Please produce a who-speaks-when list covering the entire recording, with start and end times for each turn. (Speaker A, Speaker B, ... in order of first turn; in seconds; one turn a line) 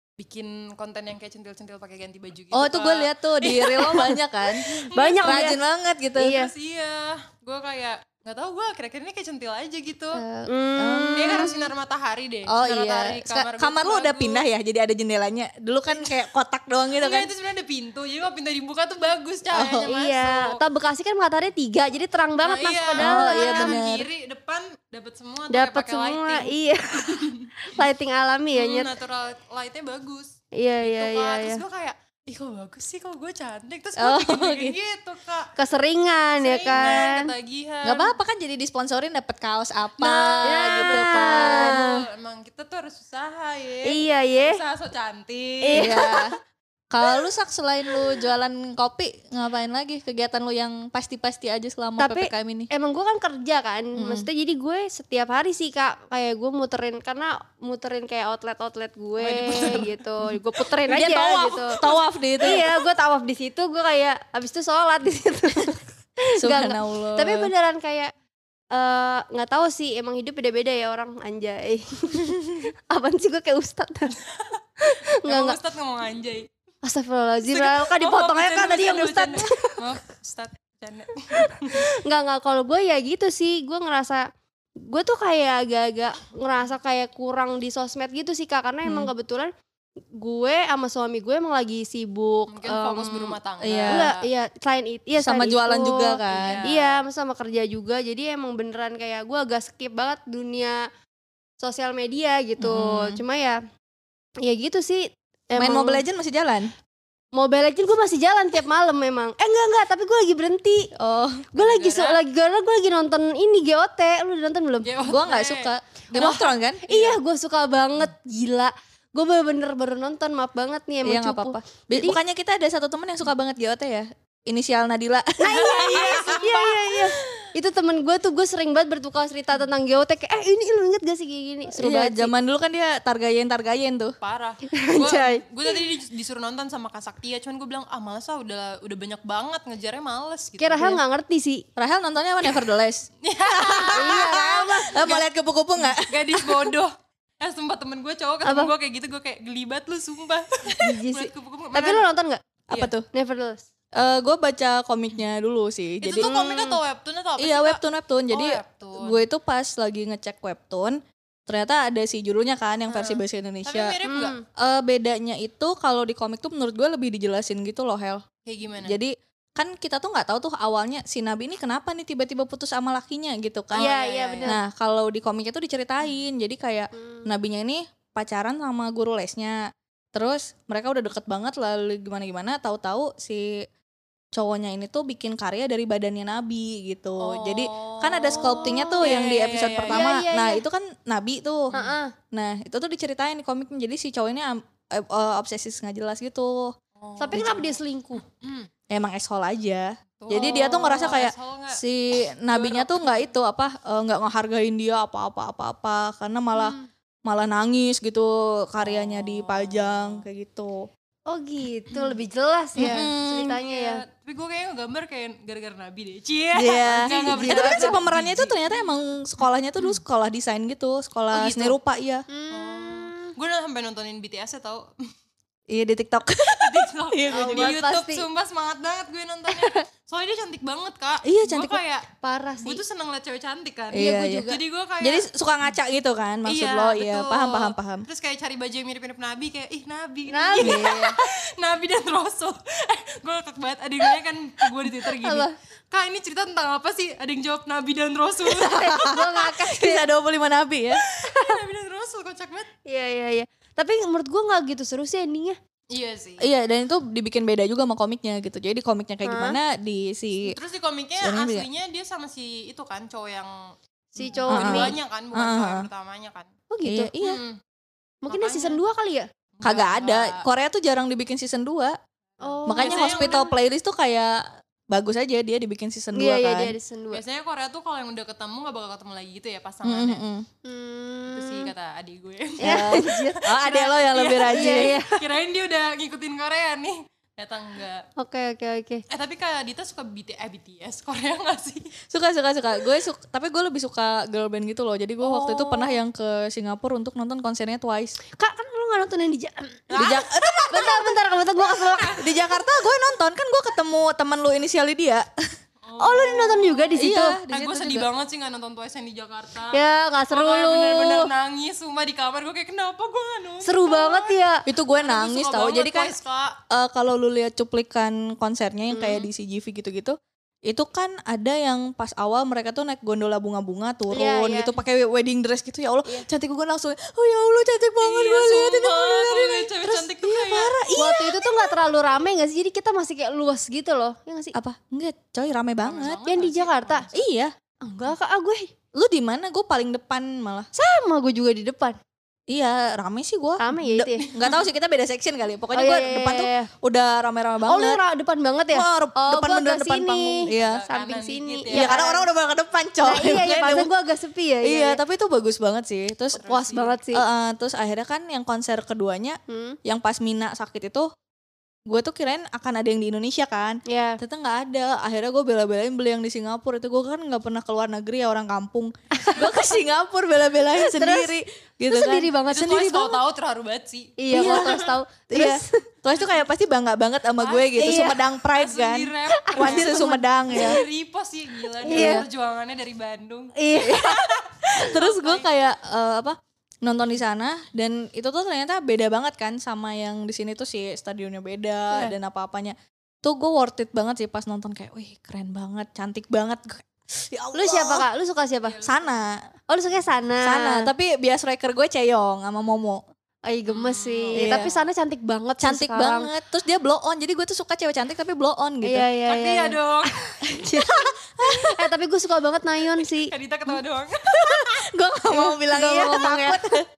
Speaker A: 0.2-4.1
Speaker B: 2.5-4.7
Speaker A: 4.8-5.5
Speaker C: 4.9-5.6
Speaker B: 5.2-6.4
Speaker C: 6.2-6.5
Speaker A: 6.2-10.2
Speaker B: 10.2-11.6
Speaker C: 10.5-11.5
Speaker A: 11.2-14.4
Speaker B: 12.5-17.3
Speaker A: 16.9-20.6
Speaker B: 19.5-19.9
Speaker C: 19.9-23.8
Speaker A: 22.4-26.5
Speaker B: 23.0-24.1
Speaker C: 25.5-28.9
Speaker A: 27.1-27.5
Speaker A: 28.5-35.5
Speaker C: 30.6-31.6
Speaker B: 34.0-34.8
Speaker C: 35.6-37.3
Speaker A: 36.4-38.1
Speaker B: 37.8-41.9
Speaker A: 40.0-46.0
Speaker C: 40.1-42.0
Speaker C: 43.9-44.6
Speaker C: 45.6-46.3
Speaker B: 45.8-46.3
Speaker B: 46.9-52.7
Speaker C: 52.0-61.8
Speaker B: 54.0-54.3
Speaker A: 59.2-59.9
Speaker B: 60.9-62.7
Speaker C: 62.4-68.1
Speaker B: 66.4-67.5
Speaker C: 68.7-74.2
Speaker C: 74.8-75.6
Speaker A: 75.2-76.5
Speaker C: 76.8-79.8
Speaker A: 77.5-81.9
Speaker C: 81.4-89.5
Speaker B: 88.8-89.1
Speaker C: 90.1-93.4
Speaker A: 92.5-94.2
Speaker B: 93.6-94.1
Speaker C: 93.9-100.9
Speaker B: 95.2-96.6
Speaker A: 96.3-97.0
Speaker C: 101.6-103.6
Speaker B: 102.6-103.2
Speaker C: 104.4-106.0
Speaker B: 105.6-106.7
Speaker C: 107.3-110.9
Speaker B: 111.0-111.6
Speaker C: 111.5-114.9
Speaker A: 111.6-112.2
Speaker A: 114.8-115.7
Speaker B: 115.0-116.9
Speaker C: 116.1-122.2
Speaker B: 121.0-126.5
Speaker C: 125.4-132.3
Speaker A: 125.5-127.3
Speaker B: 131.8-134.2
Speaker A: 134.2-141.0
Speaker C: 134.7-135.4
Speaker C: 140.6-141.7
Speaker B: 141.8-146.7
Speaker A: 143.2-145.2
Speaker C: 143.9-145.2
Speaker A: 145.8-152.1
Speaker C: 148.4-148.7
Speaker C: 150.8-152.4
Speaker B: 152.7-153.1
Speaker C: 153.1-153.6
Speaker B: 153.9-156.3
Speaker A: 156.0-159.2
Speaker C: 156.2-156.8
Speaker B: 157.4-164.0
Speaker A: 162.9-164.3
Speaker C: 164.1-164.4
Speaker B: 164.6-168.2
Speaker A: 168.4-169.0
Speaker B: 168.8-173.9
Speaker A: 173.7-174.5
Speaker C: 173.8-174.6
Speaker B: 174.5-179.6
Speaker C: 177.0-177.3
Speaker B: 180.1-183.6
Speaker B: 184.3-191.7
Speaker A: 187.2-190.1
Speaker C: 188.3-189.2
Speaker C: 189.9-190.6
Speaker C: 191.7-192.1
Speaker B: 192.3-196.8
Speaker A: 197.0-198.7
Speaker C: 197.2-198.2
Speaker B: 198.9-210.9
Speaker A: 200.2-201.8
Speaker C: 200.3-201.1
Speaker A: 202.5-203.3
Speaker C: 206.6-206.8
Speaker A: 208.8-210.2
Speaker C: 211.3-214.0
Speaker B: 212.8-213.6
Speaker A: 212.8-218.9
Speaker B: 216.6-222.3
Speaker C: 217.0-218.0
Speaker A: 221.3-221.8
Speaker C: 222.3-223.3
Speaker A: 222.5-224.9
Speaker B: 225.7-227.8
Speaker A: 226.6-232.1
Speaker C: 227.3-228.2
Speaker C: 229.5-229.8
Speaker B: 231.2-231.8
Speaker C: 232.2-232.8
Speaker A: 232.6-235.3
Speaker B: 233.9-238.1
Speaker C: 233.9-234.6
Speaker A: 236.5-249.3
Speaker C: 240.3-241.0
Speaker B: 240.6-241.2
Speaker C: 244.9-245.5
Speaker B: 248.5-251.0
Speaker C: 248.6-250.1
Speaker A: 251.1-252.7
Speaker C: 251.2-251.6
Speaker C: 252.9-255.6
Speaker A: 255.9-256.4
Speaker B: 256.4-260.6
Speaker C: 259.2-259.6
Speaker A: 260.5-266.5
Speaker B: 261.2-261.7
Speaker C: 264.2-264.9
Speaker B: 264.5-265.9
Speaker C: 266.7-267.1
Speaker B: 266.8-267.4
Speaker A: 267.2-267.6
Speaker C: 268.2-269.3
Speaker A: 268.3-268.8
Speaker A: 269.6-270.4
Speaker B: 269.6-271.9
Speaker C: 272.4-273.4
Speaker A: 272.4-273.5
Speaker B: 272.7-276.7
Speaker C: 276.1-277.2
Speaker A: 277.1-280.2
Speaker B: 279.8-280.5
Speaker C: 280.6-281.7
Speaker A: 281.3-288.1
Speaker C: 282.6-283.4
Speaker B: 282.6-285.0
Speaker C: 284.5-285.2
Speaker C: 288.2-289.0
Speaker A: 289.1-291.9
Speaker B: 292.1-298.2
Speaker C: 295.2-296.0
Speaker C: 298.4-300.1
Speaker A: 299.9-300.7
Speaker B: 300.0-301.1
Speaker C: 300.7-302.2
Speaker A: 301.7-302.4
Speaker B: 302.2-305.3
Speaker A: 305.8-309.8
Speaker C: 306.0-307.4
Speaker B: 307.0-308.1
Speaker C: 309.7-311.3
Speaker A: 310.3-314.4
Speaker C: 313.6-314.6
Speaker B: 314.7-316.1
Speaker A: 315.0-316.6
Speaker B: 316.7-331.8
Speaker C: 324.1-324.7
Speaker A: 328.0-330.8
Speaker C: 331.0-334.6
Speaker B: 334.6-336.2
Speaker A: 335.8-337.1
Speaker C: 336.3-337.1
Speaker B: 337.1-337.5
Speaker C: 337.8-338.7
Speaker B: 338.9-340.7
Speaker C: 340.8-342.0
Speaker B: 342.5-348.0
Speaker C: 343.6-344.3
Speaker C: 345.7-346.7
Speaker C: 347.7-352.2
Speaker B: 348.7-350.8
Speaker A: 350.5-352.0
Speaker B: 351.7-353.9
Speaker C: 353.0-355.0
Speaker B: 354.6-361.1
Speaker A: 356.3-357.0
Speaker C: 356.5-357.2
Speaker C: 359.5-359.8
Speaker B: 361.9-372.3
Speaker C: 363.9-364.2
Speaker C: 369.2-369.8
Speaker C: 370.8-371.4
Speaker C: 371.9-373.2
Speaker A: 372.5-374.9
Speaker C: 374.2-375.8
Speaker B: 374.3-380.8
Speaker A: 377.4-385.5
Speaker C: 377.8-378.2
Speaker C: 379.4-380.8
Speaker C: 381.8-382.2
Speaker B: 381.9-382.3
Speaker C: 383.6-384.8
Speaker B: 384.7-398.1
Speaker C: 397.5-398.8
Speaker A: 398.7-399.2
Speaker B: 398.8-399.4
Speaker C: 399.7-400.9
Speaker B: 400.4-403.0
Speaker C: 403.5-406.3
Speaker A: 403.7-404.8
Speaker B: 404.4-404.7
Speaker B: 405.6-409.1
Speaker C: 408.8-413.3
Speaker A: 409.3-410.2
Speaker B: 410.5-411.8
Speaker A: 413.2-414.7
Speaker B: 414.3-416.9
Speaker C: 415.3-416.8